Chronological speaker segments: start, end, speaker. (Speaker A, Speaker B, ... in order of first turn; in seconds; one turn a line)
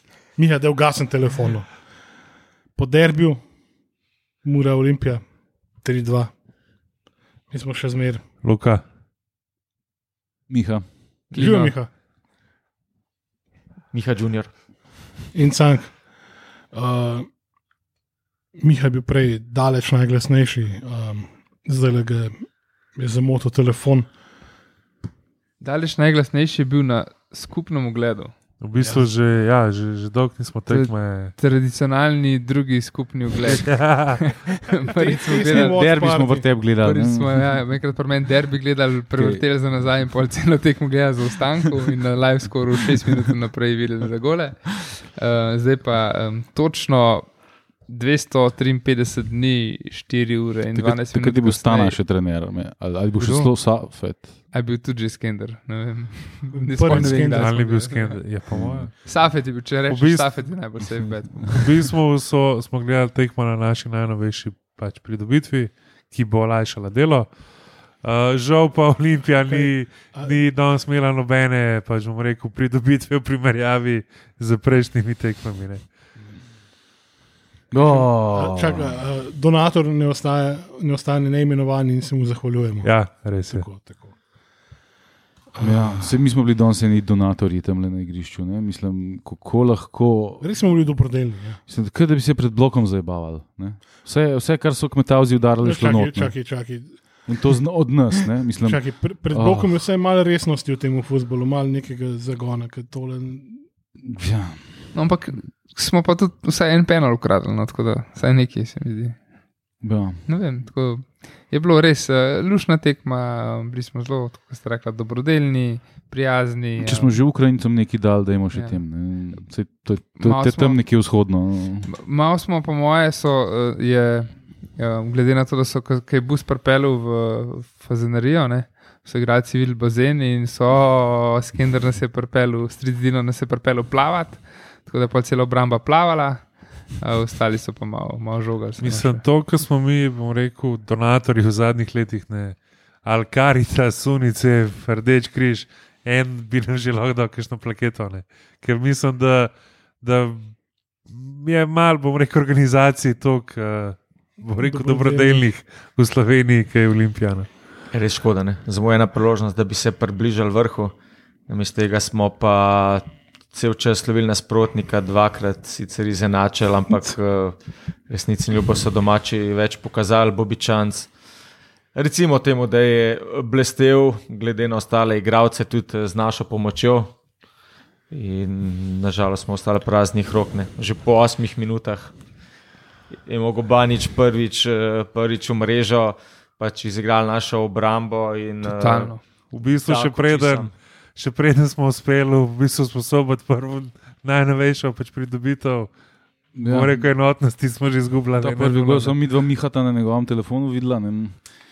Speaker A: 0.4-1.7
Speaker A: 2.8-3.4
Speaker A: 4.4-5.2
Speaker A: 5.8-6.3
Speaker A: 7.5-8.2
Speaker B: 8.4-8.8
Speaker C: 10.5-10.8
Speaker D: 11.3-11.6
Speaker A: 11.3-11.9
Speaker E: 11.4-11.7
Speaker D: 13.9-14.5
Speaker A: 15.3-15.9
Speaker A: 16.7-17.3
Speaker A: 18.6-22.4
Speaker A: 22.9-24.1
Speaker E: 25.6-28.3
Speaker B: 28.6-31.3
Speaker A: 28.8-29.1
Speaker E: 30.7-35.9
Speaker B: 33.5-34.5
Speaker A: 35.0-36.5
Speaker C: 35.5-37.4
Speaker E: 36.7-52.0
Speaker C: 39.2-39.4
Speaker C: 50.8-54.4
Speaker E: 53.2-53.5
Speaker E: 54.5-58.2
Speaker A: 56.5-57.6
Speaker B: 56.9-59.3
Speaker C: 58.5-58.9
Speaker E: 58.9-61.8
Speaker B: 59.9-60.5
Speaker B: 61.4-67.3
Speaker B: 68.0-75.8
Speaker A: 69.4-70.4
Speaker C: 77.7-79.0
Speaker A: 77.8-82.9
Speaker B: 82.8-83.7
Speaker A: 83.5-84.2
Speaker A: 85.5-86.2
Speaker C: 85.6-90.4
Speaker A: 90.4-91.6
Speaker C: 91.7-96.3
Speaker A: 95.6-97.0
Speaker C: 97.3-99.8
Speaker A: 98.6-103.6
Speaker C: 104.0-104.6
Speaker E: 104.9-109.2
Speaker C: 109.8-110.2
Speaker E: 110.3-117.2
Speaker C: 116.8-121.9
Speaker E: 118.5-118.8
Speaker E: 120.2-120.8
Speaker E: 121.9-139.2
Speaker B: 138.8-150.5
Speaker B: 151.1-157.5
Speaker A: 154.6-155.5
Speaker D: 157.9-160.9
Speaker D: 161.5-171.1
Speaker D: 171.9-177.1
Speaker D: 178.1-182.1
Speaker D: 183.2-189.1
Speaker E: 188.6-189.2
Speaker B: 189.5-195.9
Speaker D: 189.8-190.7
Speaker C: 196.6-197.1
Speaker B: 196.6-199.2
Speaker C: 198.4-201.4